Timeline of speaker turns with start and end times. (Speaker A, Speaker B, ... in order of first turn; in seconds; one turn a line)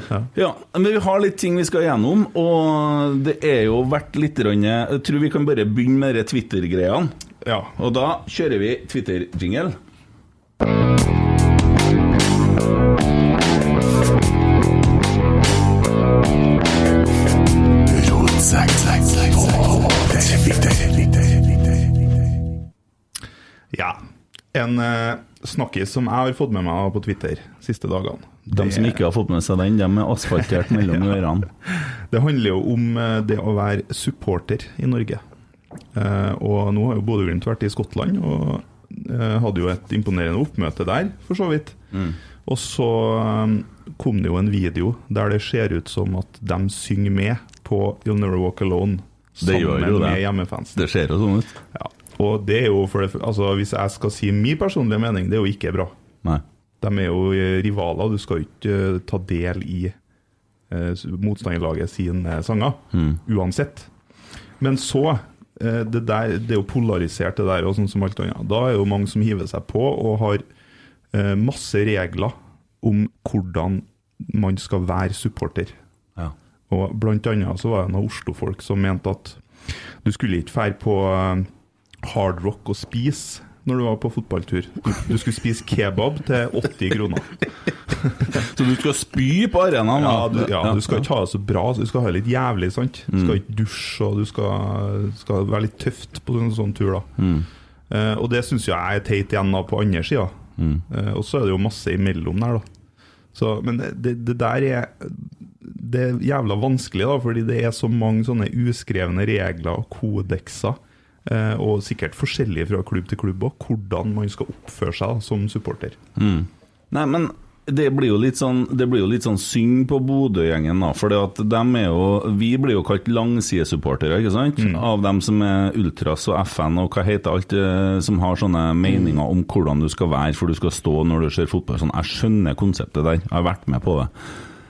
Speaker A: 0.3-7.1
Speaker B: 7.4-7.8
Speaker A: 7.8-9.8
Speaker A: 17.9-21.3
Speaker B: 23.7-24.0
Speaker B: 24.5-29.0
Speaker A: 28.5-31.5
Speaker B: 31.7-35.2
Speaker B: 35.9-41.8
Speaker B: 42.4-50.9
Speaker A: 49.4-51.5
Speaker B: 51.7-55.9
Speaker B: 56.8-59.9
Speaker B: 60.7-63.9
Speaker B: 64.6-70.4
Speaker B: 71.1-75.7
Speaker B: 76.7-79.4
Speaker B: 80.0-81.5
Speaker B: 82.0-87.4
Speaker A: 88.4-91.0
Speaker B: 89.9-97.1
Speaker A: 93.1-93.4
Speaker A: 97.2-97.5
Speaker B: 97.9-100.4
Speaker A: 100.6-100.8
Speaker B: 100.9-102.6
Speaker B: 103.3-116.0
Speaker A: 116.2-134.1
Speaker B: 124.6-124.8